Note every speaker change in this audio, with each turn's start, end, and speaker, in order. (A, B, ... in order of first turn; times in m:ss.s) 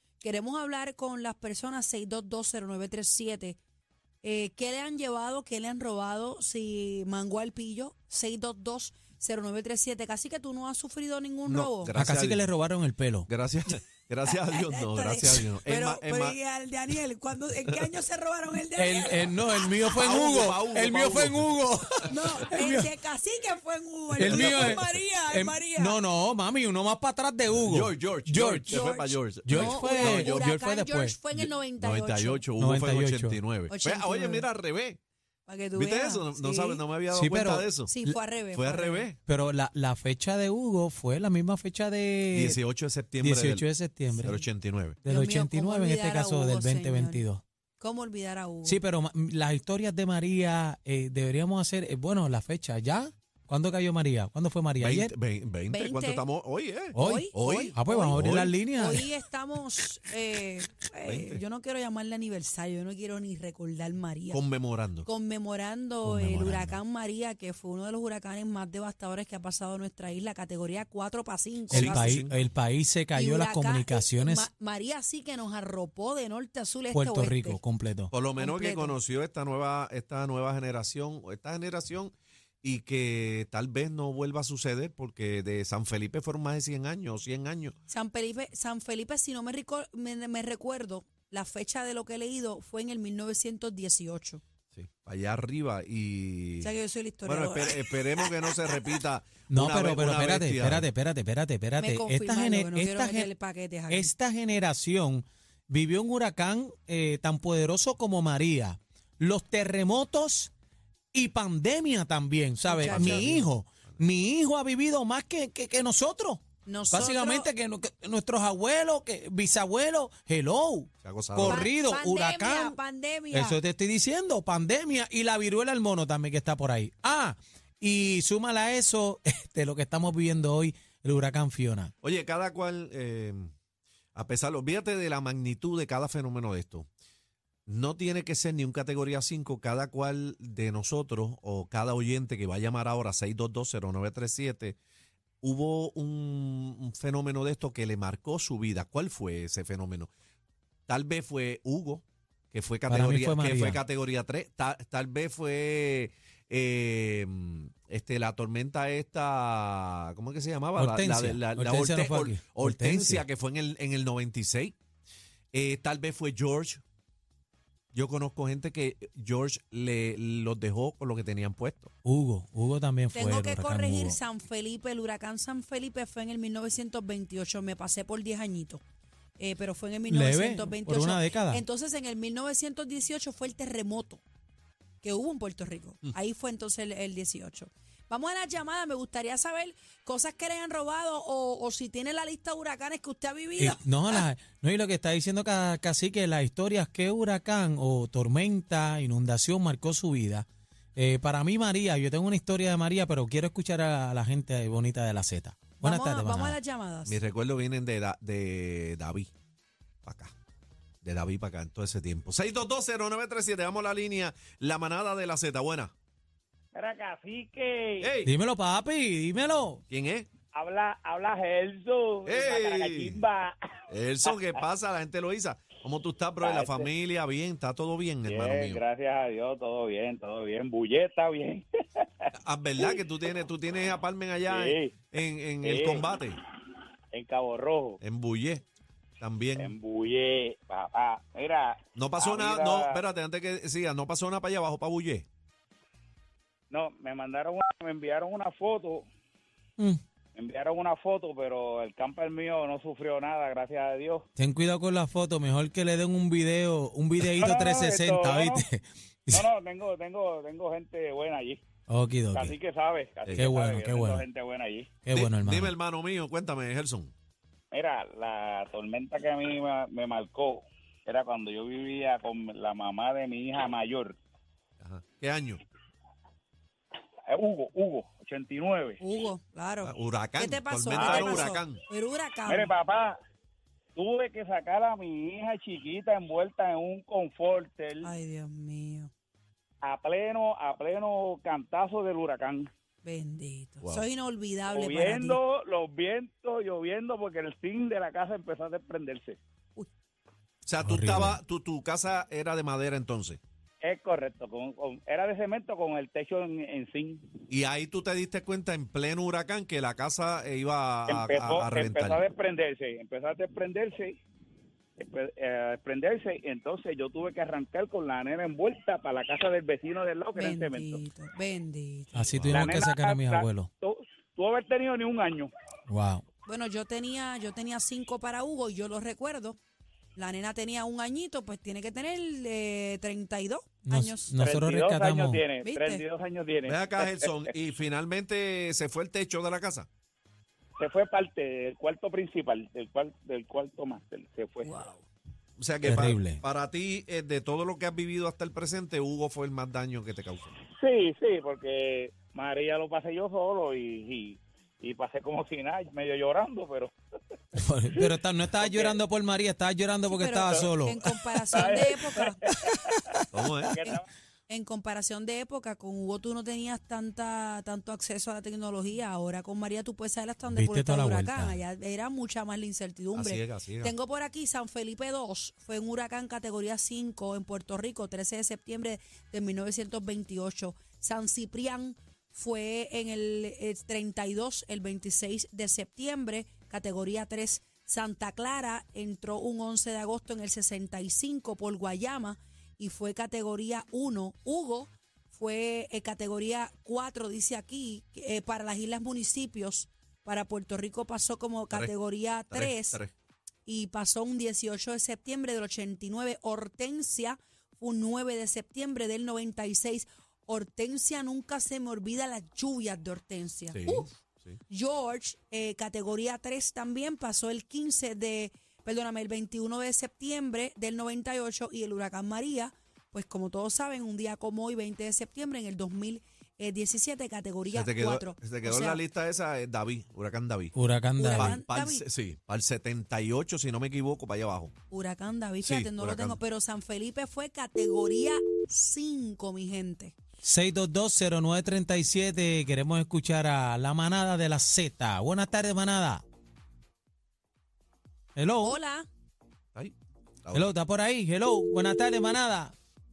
0:00.2-0:03.6 A
0:04.2-0:11.9 A
0:11.5-0:12.4 B
0:12.0-0:13.3 C
0:13.3-0:16.4 B
0:14.3-0:19.7 A
0:18.8-0:23.0 C
0:19.9-0:21.6 B
0:22.1-0:26.0 A
0:22.1-0:22.5 B
0:24.2-0:28.8 C
0:24.2-0:24.8 B
0:27.6-0:30.5 B
0:28.7-0:32.4 A
0:29.4-0:31.2 C
0:31.3-0:35.0 B
0:32.6-0:33.4 C
0:33.7-0:34.5 A
0:35.5-0:36.8 A
0:35.7-0:37.9 B
0:37.1-0:38.2 C
0:37.9-0:39.1 A
0:38.5-0:39.2 B
0:39.3-0:42.6 C
0:42.3-0:43.7 B
0:43.2-0:44.4 C
0:44.2-0:45.0 B
0:45.0-0:47.2 A
0:45.1-0:47.4 C
0:47.8-0:48.8 A
0:48.6-0:55.1 C
0:54.8-0:58.6 B
0:55.7-0:56.2 A
0:56.9-0:59.1 C
0:57.0-1:04.4 A
1:01.0-1:01.4 B
1:04.3-1:05.1 B
1:05.0-1:12.1 A
1:06.0-1:06.8 C
1:11.7-1:12.5 B
1:11.7-1:14.5 C
1:13.2-1:17.6 A
1:16.9-1:18.1 C
1:18.1-1:27.8 B
1:18.4-1:19.0 A
1:27.9-1:34.4 A
1:34.7-1:36.7 B
1:36.6-1:38.5 A
1:37.2-1:40.9 B
1:39.5-1:43.3 C
1:41.8-1:44.1 A
1:43.9-1:50.5 C
1:51.1-2:02.8 C
1:52.7-1:53.4 A
1:52.8-1:53.5 B
1:56.7-1:57.5 A
2:01.0-2:01.7 B
2:01.4-2:03.6 A
2:03.3-2:11.9 C
2:12.0-2:13.5 B
2:14.2-2:16.9 B
2:17.7-2:24.8 B
2:25.4-2:30.1 B
2:30.9-2:44.8 B
2:32.9-2:33.8 C
2:40.8-2:43.2 C
2:45.5-2:46.8 B
2:47.9-2:51.9 B
2:52.0-2:54.2 C
2:53.1-2:58.8 A
2:59.4-3:04.2 A
3:00.1-3:01.6 C
3:05.0-3:14.2 A
3:13.6-3:26.6 C
3:25.8-3:27.2 A
3:27.1-3:29.3 B
3:30.0-3:30.3 B
3:31.0-3:35.9 B
3:36.7-3:38.1 D
3:38.0-3:38.3 B
3:38.2-3:39.8 C
3:39.9-3:40.3 B
3:40.5-3:43.6 D
3:42.3-3:43.2 B
3:43.9-3:48.8 B
3:44.2-3:44.6 D
3:46.4-3:46.9 D
3:48.2-3:52.3 D
3:52.4-3:56.4 B
3:54.5-3:55.0 D
3:55.6-3:56.2 D
3:57.1-3:58.0 D
3:58.0-3:58.6 B
3:59.2-3:59.7 B
3:59.6-4:03.0 D
4:02.0-4:05.3 B
4:06.7-4:09.0 D
4:10.4-4:14.3 D
4:14.4-4:19.4 C
4:17.4-4:18.6 D
4:19.3-4:21.6 D
4:21.9-4:22.6 C
4:22.3-4:24.9 D
4:23.3-4:23.5 B
4:23.4-4:24.2 C
4:25.0-4:25.7 C
4:25.1-4:27.1 B
4:27.7-4:34.2 D
4:34.8-4:35.6 B
4:37.3-4:39.0 D
4:39.0-4:42.7 A
4:39.8-4:41.8 B
4:40.9-4:41.5 D
4:42.5-4:43.2 D
4:44.0-4:48.1 D
4:48.0-4:49.1 A
4:49.8-4:52.7 D
4:53.0-4:55.4 A
4:54.7-4:59.4 D
5:00.7-5:03.4 B
5:00.8-5:01.4 C
5:03.8-5:07.2 D
5:07.5-5:12.2 B
5:11.1-5:14.2 D
5:15.0-5:21.0 D
5:20.4-5:22.4 A
5:22.1-5:23.7 C
5:22.4-5:22.9 B
5:22.5-5:25.5 D
5:25.9-5:26.2 C
5:26.5-5:29.6 A
5:30.2-5:34.4 A
5:33.9-5:35.4 C
5:34.4-5:37.5 D
5:35.6-5:36.0 A
5:36.6-5:39.9 B
5:40.8-5:44.9 D
5:44.6-5:45.0 A
5:45.6-5:50.6 B
5:45.8-5:46.4 C
5:50.7-5:56.9 D
5:57.5-6:01.7 C
5:58.6-5:58.9 D
6:00.1-6:02.4 A
6:01.5-6:04.0 D
6:03.3-6:03.8 B
6:03.8-6:43.0 A
6:10.5-6:11.6 C
6:13.1-6:13.9 B
6:42.5-6:43.1 B
6:43.7-6:54.2 A
6:53.7-6:54.6 B
6:54.7-7:09.0 A
7:07.7-7:10.8 B
7:10.8-7:11.6 C
7:11.2-7:12.0 A
7:11.3-7:14.7 B
7:14.9-7:20.1 A
7:15.6-7:16.4 B
7:20.4-7:26.2 C
7:28.4-7:28.8 C
7:28.6-7:29.1 A
7:29.7-7:30.7 B
7:30.5-7:32.7 C